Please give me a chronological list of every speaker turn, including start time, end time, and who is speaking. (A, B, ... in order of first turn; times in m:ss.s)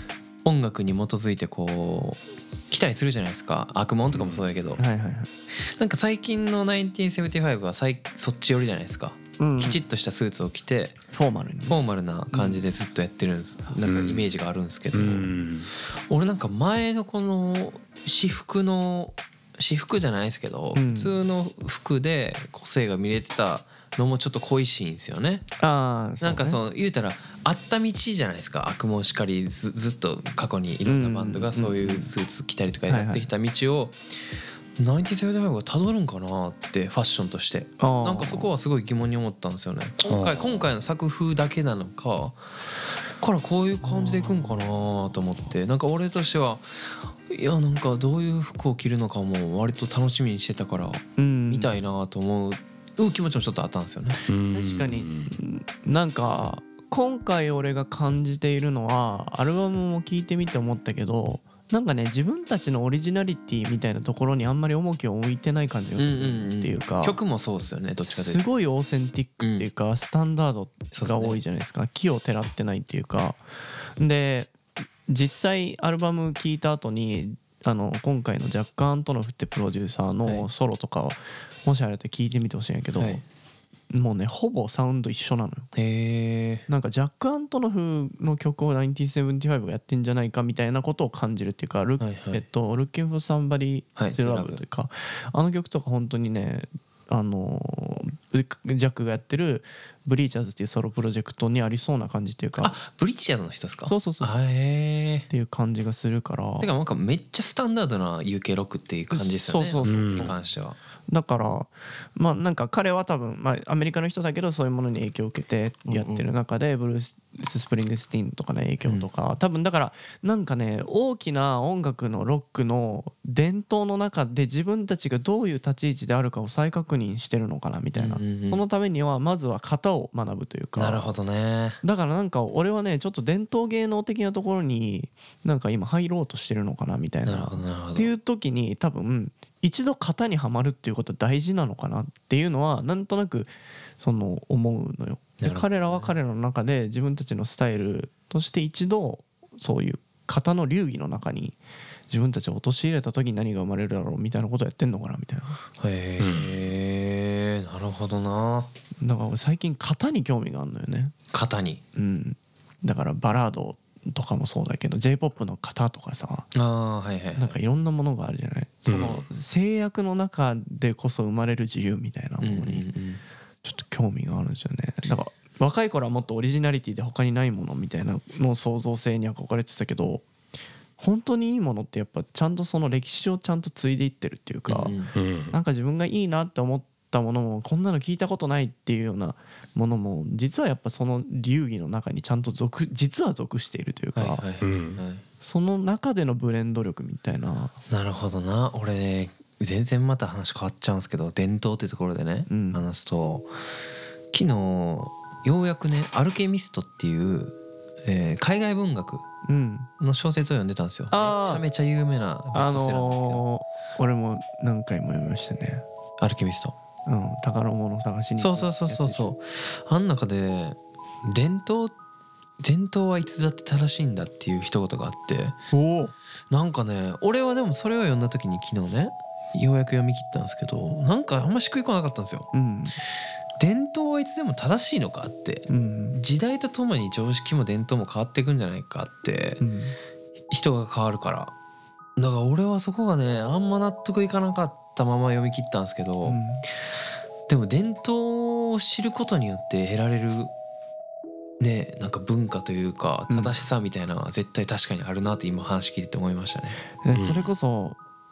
0:00.4-0:04.8 A
0:04.1-0:04.8 B
0:04.8-0:05.3 C
0:05.6-0:11.0 A
0:09.4-0:09.8 C
0:11.1-0:11.8 C
0:11.7-0:15.3 A
0:12.3-0:12.6 C
0:13.8-0:14.3 B
0:14.9-0:15.7 B
0:16.1-0:25.5 A
0:20.7-0:21.2 C
0:25.6-0:26.6 C
0:26.2-0:34.0 A
0:30.8-0:32.1 C
0:32.9-0:33.3 C
0:34.8-0:42.4 A
0:37.8-0:38.5 C
0:40.0-0:40.7 B
0:43.2-0:54.2 A
0:43.8-0:44.5 C
0:51.2-0:51.7 C
0:54.3-0:55.4 B
0:54.5-1:07.2 C
1:06.0-1:08.4 A
1:08.0-1:13.4 C
1:09.4-1:09.7 A
1:10.9-1:11.4 A
1:14.0-1:14.5 C
1:15.1-1:23.2 C
1:23.0-1:23.2 A
1:23.9-1:25.7 C
1:25.7-1:26.6 A
1:26.7-1:42.8 C
1:32.0-1:32.4 A
1:34.0-1:34.6 A
1:42.6-1:45.3 A
1:43.9-1:44.3 C
1:45.3-1:46.7 C
1:46.6-1:50.8 A
1:49.1-1:50.4 C
1:49.8-1:50.3 B
1:51.1-2:11.1 C
1:55.9-1:56.2 A
2:08.0-2:08.6 A
2:10.8-2:11.8 A
2:11.8-2:35.6 C
2:17.2-2:18.1 A
2:25.4-2:26.2 A
2:35.8-2:38.7 A
2:36.2-2:36.7 B
2:39.0-2:41.1 C
2:41.3-2:41.8 A
2:41.9-2:46.5 C
2:46.5-2:47.6 A
2:47.4-2:52.8 C
2:48.9-2:49.2 B
2:52.4-2:53.2 A
2:53.6-3:00.2 C
3:01.0-3:04.9 C
3:04.7-3:05.1 A
3:05.1-3:05.5 B
3:05.5-3:14.4 C
3:14.2-3:15.2 A
3:14.6-3:15.0 B
3:15.4-3:17.7 C
3:17.9-3:23.5 A
3:22.5-3:22.8 C
3:24.3-3:27.5 A
3:28.0-3:29.2 A
3:29.4-3:29.9 C
3:30.0-3:33.4 A
3:31.1-3:31.6 C
3:32.5-3:35.8 C
3:36.2-3:36.7 A
3:37.0-3:39.3 C
3:38.4-3:41.9 A
3:42.6-3:45.6 A
3:45.7-3:46.1 C
3:46.5-3:52.5 A
3:52.5-3:53.0 C
3:53.6-3:59.6 A
3:55.7-3:56.2 C
3:59.6-4:00.0 C
4:00.5-4:01.5 A
4:02.2-4:06.4 A
4:06.2-4:06.6 C
4:07.5-4:10.5 A
4:11.6-4:16.8 A
4:13.3-4:13.6 C
4:17.0-4:18.0 C
4:17.1-4:17.5 B